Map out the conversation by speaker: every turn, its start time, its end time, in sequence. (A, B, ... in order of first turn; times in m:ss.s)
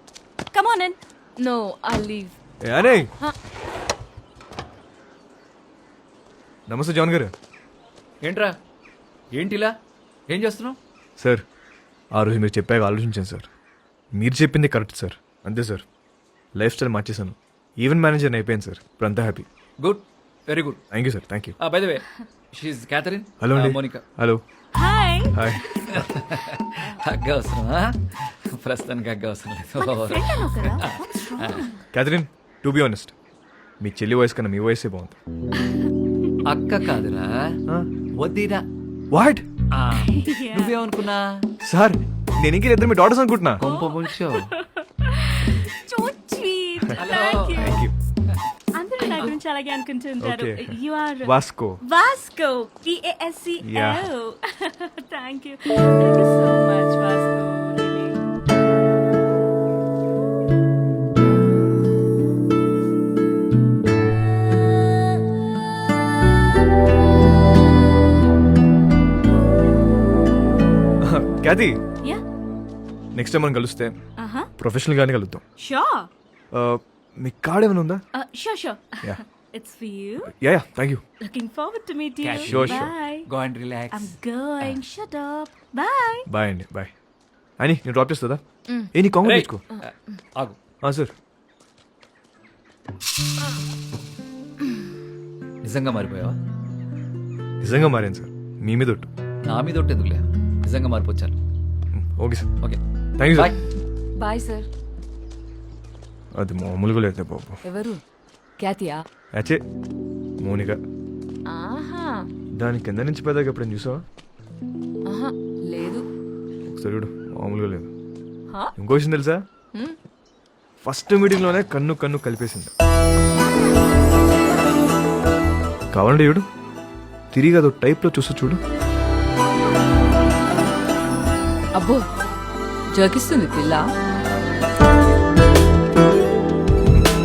0:00.5-0:01.0 A
0:01.4-0:02.4 B
0:02.6-0:03.1 C
0:06.7-0:07.3 C
0:08.2-0:08.6 D
0:09.3-0:09.8 D
0:10.3-0:10.8 D
0:11.2-0:11.4 C
0:12.2-0:13.5 C
0:14.2-0:15.8 C
0:16.6-0:19.5 C
0:19.8-0:20.8 D
0:20.9-0:21.6 C
0:21.6-0:24.0 D
0:23.4-0:24.4 C
0:24.8-0:25.8 A
0:25.4-0:26.1 C
0:25.9-0:31.7 D
0:29.8-0:31.8 A
0:31.9-0:33.1 C
0:33.8-0:35.2 C
0:36.5-0:37.6 D
0:38.2-0:38.6 D
0:39.1-0:39.4 C
0:39.8-0:41.4 D
0:39.9-0:40.7 A
0:41.6-0:43.6 C
0:43.6-0:44.5 D
0:43.6-0:47.8 A
0:47.0-0:47.7 D
0:47.6-0:47.9 C
0:48.8-0:51.3 A
0:49.0-0:49.4 D
0:50.2-0:51.8 C
0:51.9-0:58.2 A
0:53.6-0:54.1 C
1:11.0-1:11.8 C
1:13.2-1:14.0 C
1:14.2-1:14.5 A
1:14.6-1:15.4 C
1:15.6-1:16.1 A
1:16.5-1:18.0 C
1:18.2-1:20.3 A
1:20.3-1:21.0 C
1:21.2-1:23.2 A
1:22.2-1:24.8 D
1:22.4-1:22.9 C
1:23.9-1:26.3 A
1:26.3-1:26.9 C
1:27.6-1:29.6 C
1:29.2-1:30.6 D
1:30.8-1:31.1 C
1:35.6-1:36.4 D
1:37.6-1:39.1 C
1:39.4-1:41.3 D
1:42.0-1:42.5 C
1:42.6-1:43.6 D
1:43.2-1:43.5 C
1:44.2-1:44.7 B
1:46.4-1:47.6 C
1:47.6-1:48.0 B
1:48.6-1:49.0 B
1:49.4-1:49.6 C
1:50.4-1:50.8 C
1:51.5-1:52.2 B
1:52.6-1:54.0 C
1:55.1-1:56.0 B
1:56.7-1:57.9 C
1:58.8-1:59.4 C
2:00.8-2:02.7 C
2:05.9-2:06.4 C
2:07.3-2:08.6 C
2:11.8-2:12.0 B
2:12.9-2:13.8 B